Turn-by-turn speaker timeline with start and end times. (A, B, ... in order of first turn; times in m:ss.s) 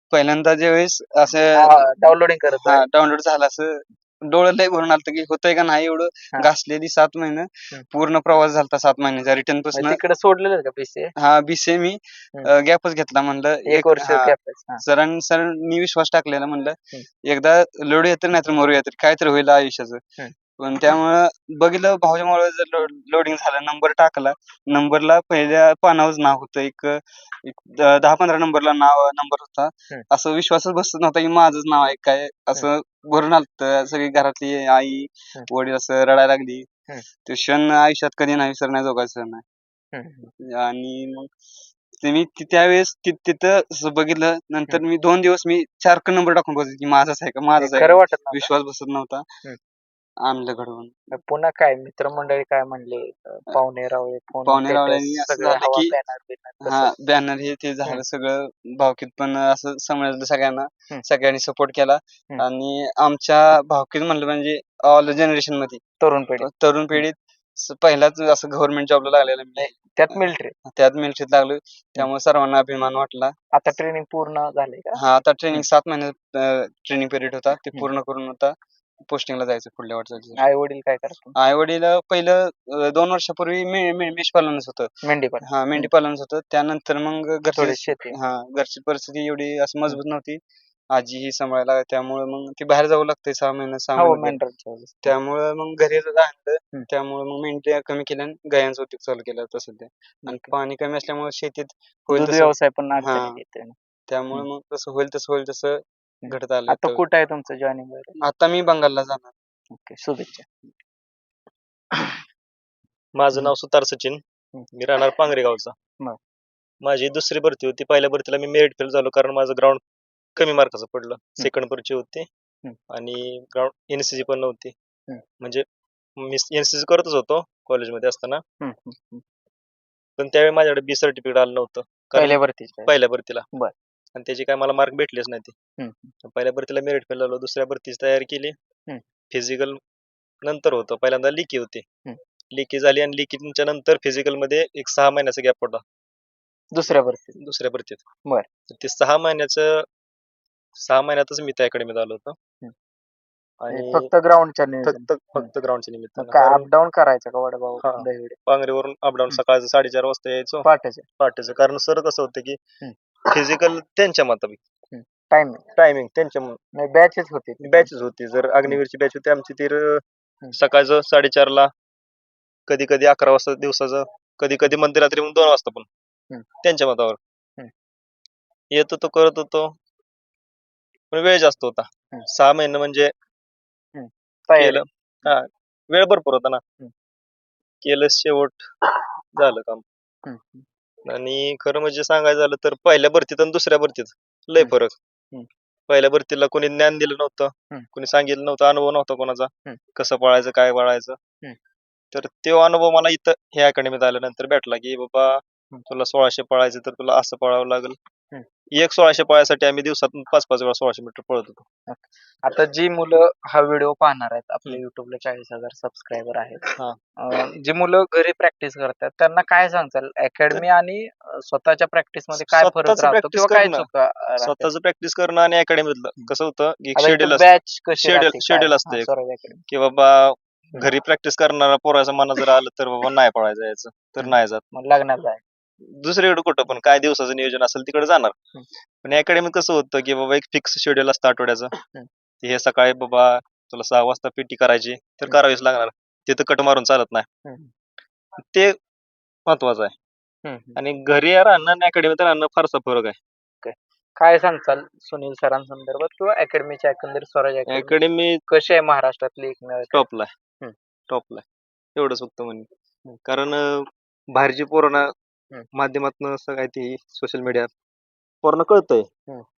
0:00.1-0:01.8 A
0:01.5-0:02.8 B
0:02.6-0:10.0 A
0:09.7-0:11.1 B
0:11.2-0:20.0 A
0:13.7-0:14.8 B
0:20.6-0:36.7 A
0:37.2-0:39.4 A
0:39.9-0:40.3 B
0:40.4-0:41.3 A
0:42.0-0:49.2 A
0:47.6-0:48.5 B
0:50.2-0:50.9 A
0:51.1-0:56.9 B
0:54.4-0:55.9 A
0:56.6-1:05.8 A
1:06.0-1:07.0 B
1:06.4-1:09.7 A
1:09.6-1:10.5 B
1:10.7-1:13.3 A
1:13.5-1:15.0 B
1:15.0-1:20.4 A
1:20.4-1:21.3 B
1:21.4-1:30.4 A
1:25.0-1:25.9 B
1:27.6-1:28.2 B
1:30.9-1:34.4 A
1:34.0-1:35.1 B
1:35.0-1:43.4 A
1:40.2-1:40.5 B
1:42.1-1:43.7 B
1:44.1-1:47.0 A
1:46.2-1:48.2 B
1:48.2-1:49.3 A
1:49.7-1:50.8 B
1:51.9-1:52.2 B
1:53.2-1:54.2 C
1:54.7-1:55.7 C
1:56.8-1:59.8 C
2:00.4-2:02.3 C
2:02.9-2:04.7 C
2:06.2-2:08.4 C
2:08.6-2:09.2 B
2:10.2-2:13.4 C
2:12.1-2:12.9 B
2:14.1-2:15.5 C
2:15.8-2:16.1 B
2:16.2-2:18.5 C
2:19.3-2:19.8 C
2:20.4-2:21.8 C
2:22.5-2:25.8 C
2:26.7-2:27.4 B
2:27.4-2:28.0 C
2:28.7-2:29.8 C
2:30.8-2:32.4 C
2:33.6-2:34.1 C
2:33.7-2:35.5 B
2:34.8-2:36.7 C
2:36.2-2:38.4 B
2:37.8-2:40.6 C
2:40.6-2:41.0 B
2:41.2-2:42.6 C
2:43.2-2:44.6 C
2:44.9-2:45.6 B
2:45.8-2:46.6 C
2:46.8-2:47.9 B
2:47.6-2:50.0 C
2:50.5-2:51.7 C
2:52.7-2:55.9 C
2:56.6-2:57.2 C
2:58.7-2:59.8 C
3:01.1-3:03.1 C
3:03.9-3:04.8 B
3:04.6-3:06.6 C
3:07.8-3:08.7 C
3:09.3-3:09.8 C
3:10.2-3:10.6 B
3:11.1-3:14.9 C
3:15.9-3:21.2 C
3:22.1-3:28.0 C
3:28.7-3:31.6 C
3:31.9-3:44.7 B
3:42.3-3:43.9 C
3:44.4-3:49.1 C
3:47.0-3:49.6 B
3:49.7-3:54.6 C
3:54.2-3:55.4 B
3:55.9-3:58.3 C
3:59.0-4:01.7 C
4:02.4-4:07.2 C
4:07.4-4:07.7 B
4:08.4-4:08.8 C
4:09.5-4:09.9 C
4:10.4-4:10.8 B
4:10.8-4:13.2 C
4:13.6-4:20.0 B
4:17.7-4:18.4 C
4:19.9-4:20.3 C
4:21.1-4:22.7 C
4:23.2-4:25.1 C
4:25.7-4:27.7 C
4:28.4-4:29.1 C